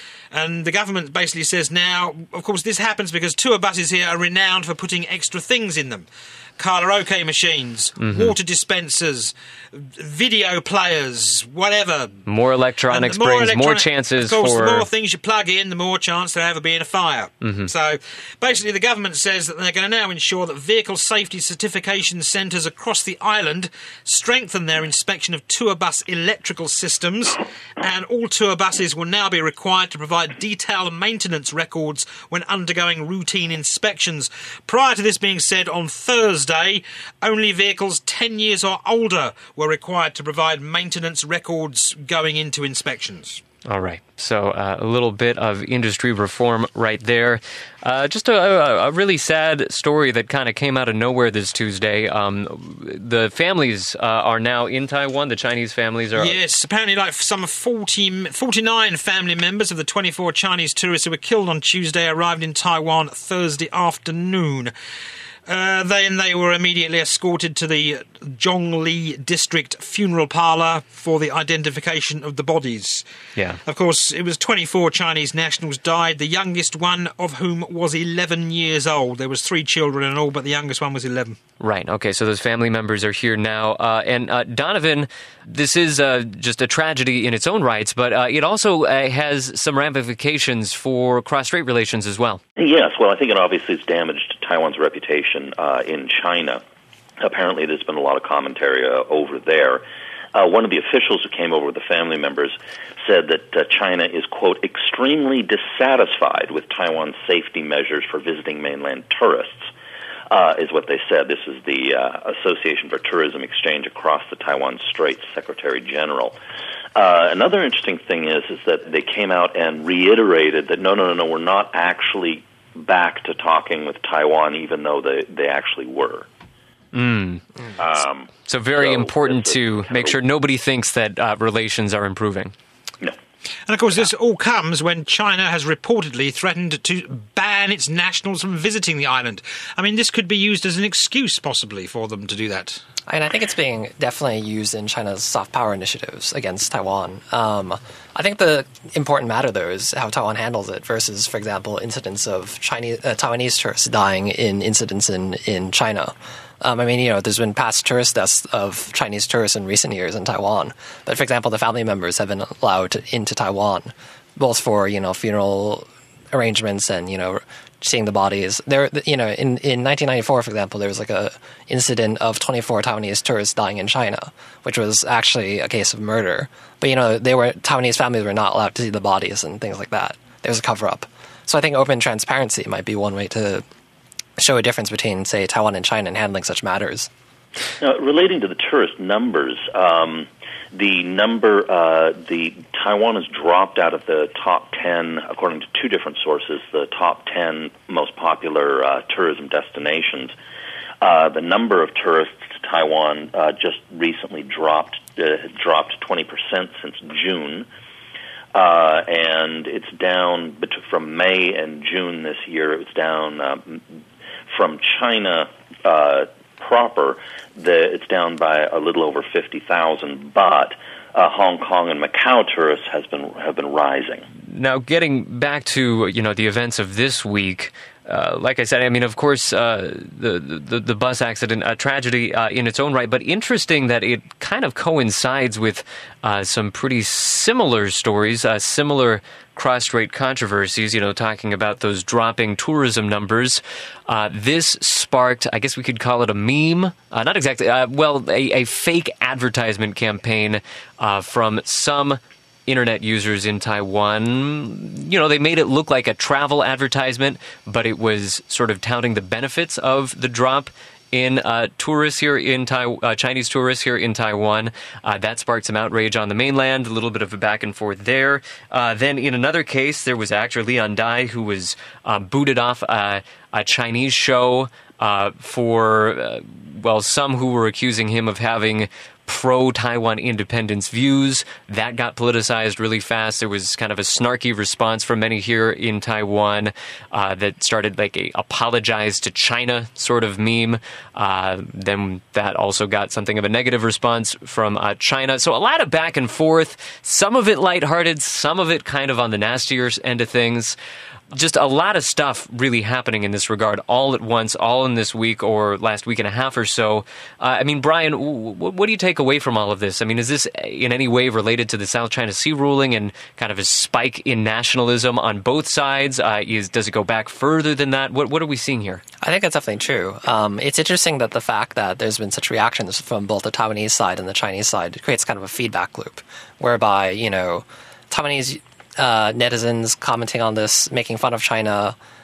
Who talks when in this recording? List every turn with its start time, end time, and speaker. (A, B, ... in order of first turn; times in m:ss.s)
0:00.3-0:12.2 A
0:08.0-0:08.3 B
0:12.2-0:14.9 B
0:12.9-0:43.4 A
0:17.4-0:17.7 B
0:43.6-0:56.4 B
0:56.2-1:04.7 A
1:05.5-1:13.0 A
1:13.4-1:13.6 B
1:13.6-1:21.4 A
1:21.6-1:32.4 B
1:32.6-1:36.6 C
1:37.2-1:39.8 C
1:40.3-1:49.7 C
1:50.3-1:56.3 C
1:56.9-2:06.3 C
2:06.9-2:07.4 B
2:07.8-2:10.2 C
2:08.4-2:12.5 B
2:13.7-2:22.8 A
2:23.1-3:03.6 D
3:04.4-3:07.1 D
3:07.8-3:20.3 C
3:21.0-3:27.7 C
3:28.5-3:33.8 C
3:34.5-3:44.2 C
3:44.5-5:00.8 B
5:01.3-5:19.0 B
5:19.2-5:32.0 D